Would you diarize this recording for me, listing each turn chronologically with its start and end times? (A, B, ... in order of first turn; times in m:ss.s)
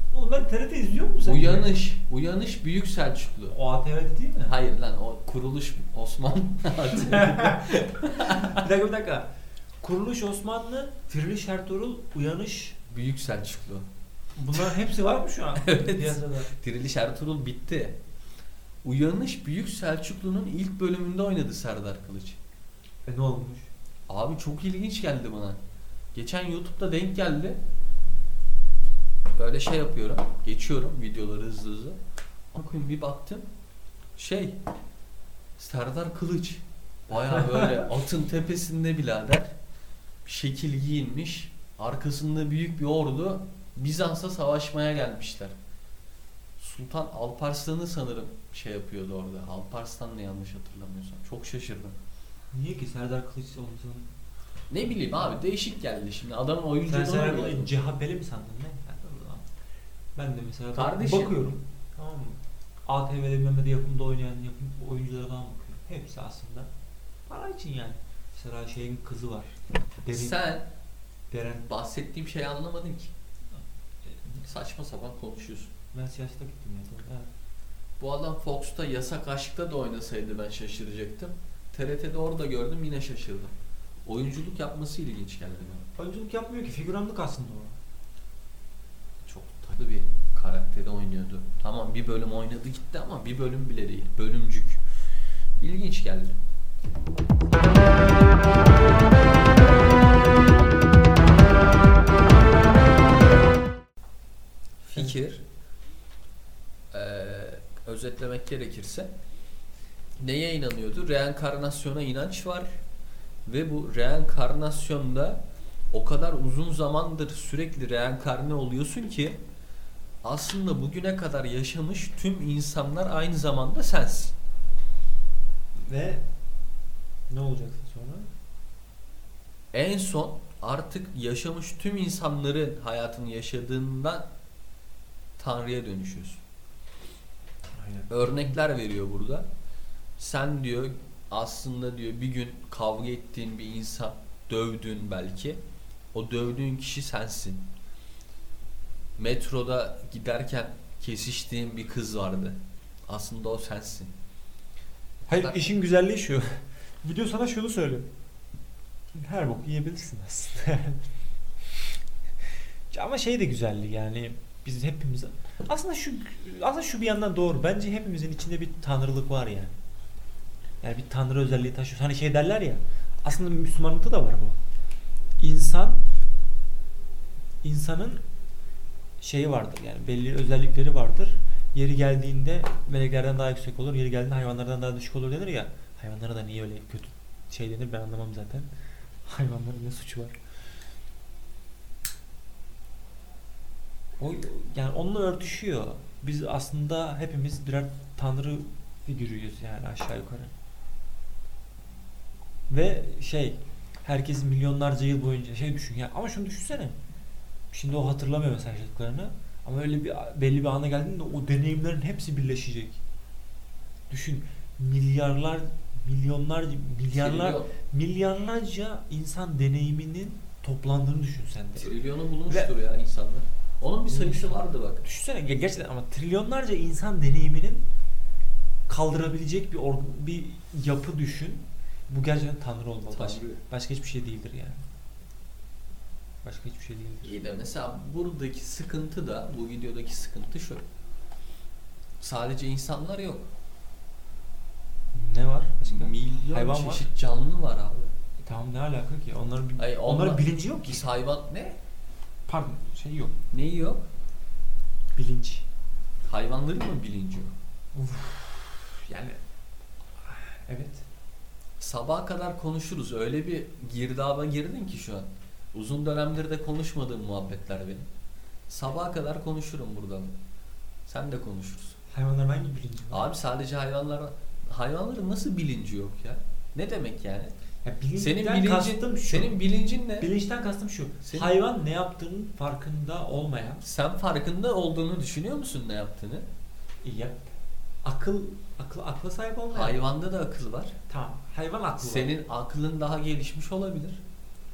0:00.1-0:01.8 A
0:01.2-0:03.6 B
0:03.5-0:04.5 A
0:04.4-0:08.6 B
0:07.0-0:07.7 A
0:08.2-0:09.3 A
0:09.8-0:12.8 A
0:12.9-0:13.9 B
0:14.4-0:16.5 A
0:15.6-0:18.0 B
0:18.8-0:22.4 B
0:23.0-0:23.7 A
0:24.1-0:25.6 B
0:26.1-0:27.6 B
0:29.3-0:32.0 B
0:32.5-0:33.5 B
0:34.2-0:34.6 B
0:35.6-0:39.5 B
0:40.2-0:45.6 B
0:46.6-0:52.0 B
0:52.5-0:54.1 A
0:54.7-0:57.7 B
0:56.8-0:59.4 A
1:00.2-1:06.7 A
1:00.7-1:01.4 B
1:07.3-1:10.4 A
1:10.1-1:10.7 B
1:11.3-1:11.7 A
1:11.6-1:13.1 B
1:13.6-1:14.4 A
1:14.4-1:15.7 B
1:15.9-1:17.3 A
1:18.0-1:23.5 B
1:24.0-1:25.8 B
1:26.0-1:27.8 A
1:29.2-1:34.8 B
1:35.6-1:36.4 B
1:44.8-1:45.4 B
1:46.9-1:49.1 B
1:50.2-1:52.7 B
1:53.4-1:59.4 B
2:00.2-2:04.3 B
2:05.8-2:06.2 A
2:07.3-2:08.3 A
2:09.7-2:14.3 B
2:15.4-2:16.4 B
2:17.8-2:18.3 A
2:18.1-2:19.5 B
2:20.2-2:25.6 B
2:26.1-2:27.7 B
2:29.2-2:34.2 B
2:35.3-2:38.1 A
2:35.3-2:35.6 B
2:39.1-2:41.0 A
2:42.9-2:49.7 A
2:50.8-2:54.6 A
2:55.4-2:56.0 A
2:57.6-2:58.2 A
2:59.2-3:08.7 A
3:09.2-3:10.4 A
3:14.2-3:20.5 A
3:22.7-3:27.0 A
3:27.7-3:33.0 A
3:34.1-3:42.0 A
3:37.1-3:37.7 B
3:41.8-3:45.0 B
3:44.1-3:47.8 A
3:48.9-3:54.8 A
3:53.1-3:53.6 B
3:56.4-3:57.4 A
3:57.2-4:00.8 B
4:02.2-4:03.5 B
4:05.1-4:07.1 A
4:05.8-4:08.1 B
4:08.4-4:11.0 A
4:09.8-4:11.8 B
4:12.5-4:13.3 A
4:13.5-4:14.1 B
4:15.2-4:15.6 A
4:16.2-4:17.5 B
4:17.9-4:19.4 A
4:20.2-4:21.0 A
4:21.8-4:28.1 B
4:28.7-4:30.4 B
4:31.0-4:32.0 B
4:32.1-4:33.2 A
4:33.1-4:37.5 B
4:37.8-4:39.6 A
4:38.2-4:40.3 B
4:40.2-4:43.8 A
4:41.2-4:41.5 B
4:43.8-4:46.5 B
4:47.0-4:47.5 A
4:48.0-4:50.0 A
4:49.7-4:50.9 B
4:51.1-4:52.4 A
4:52.0-4:54.2 B